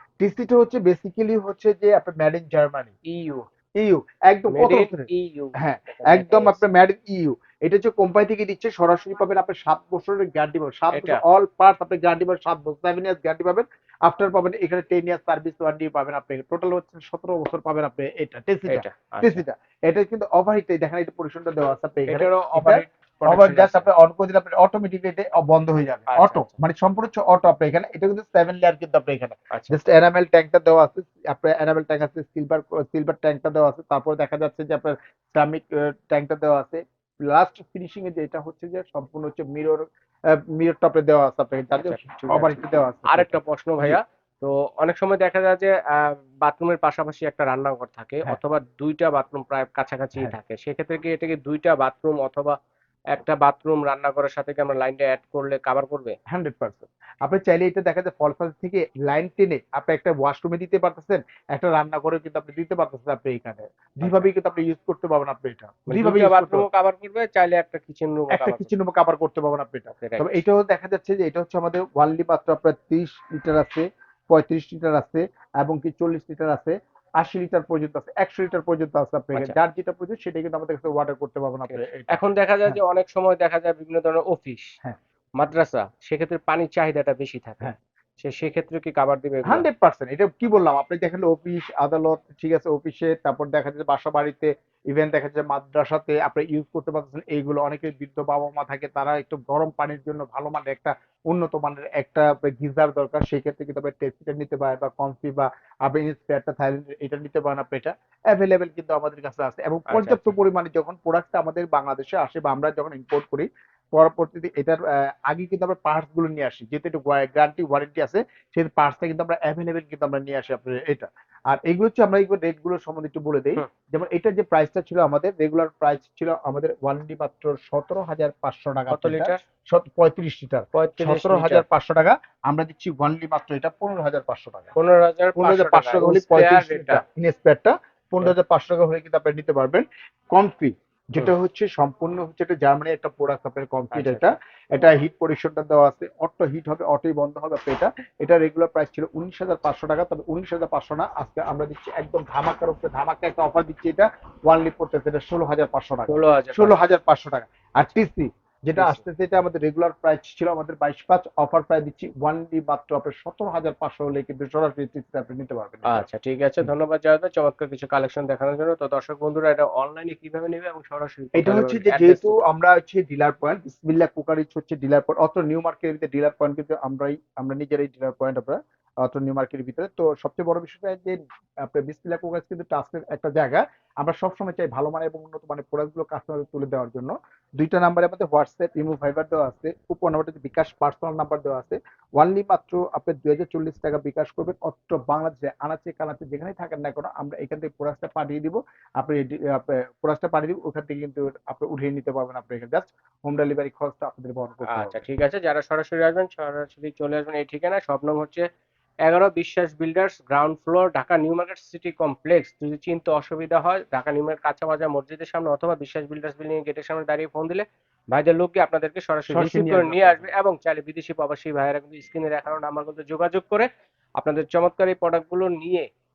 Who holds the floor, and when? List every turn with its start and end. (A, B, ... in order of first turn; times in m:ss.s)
0:00.2-0:02.9 A
0:03.0-0:03.4 B
0:03.8-0:44.0 A
0:04.5-0:06.6 B
0:10.9-0:11.2 B
0:18.7-0:19.4 B
0:22.0-0:23.9 B
0:26.1-0:26.6 B
0:29.5-0:29.8 B
0:41.8-0:52.6 B
0:53.1-0:56.2 B
0:56.3-1:06.6 A
1:04.0-1:04.3 B
1:05.9-1:08.7 B
1:08.3-1:22.8 A
1:10.0-1:10.4 B
1:21.7-1:24.7 B
1:25.4-1:29.6 B
1:29.4-2:14.7 A
1:49.9-1:50.3 B
2:08.9-2:09.4 B
2:10.7-2:11.6 B
2:14.8-2:17.0 B
2:15.4-2:46.0 A
2:23.9-2:24.3 B
2:36.1-2:36.8 B
2:38.8-2:39.0 B
2:45.9-2:52.4 B
2:51.4-3:25.0 A
3:24.7-3:28.4 B
3:29.0-3:43.7 B
3:39.3-3:40.3 A
3:44.2-3:45.9 B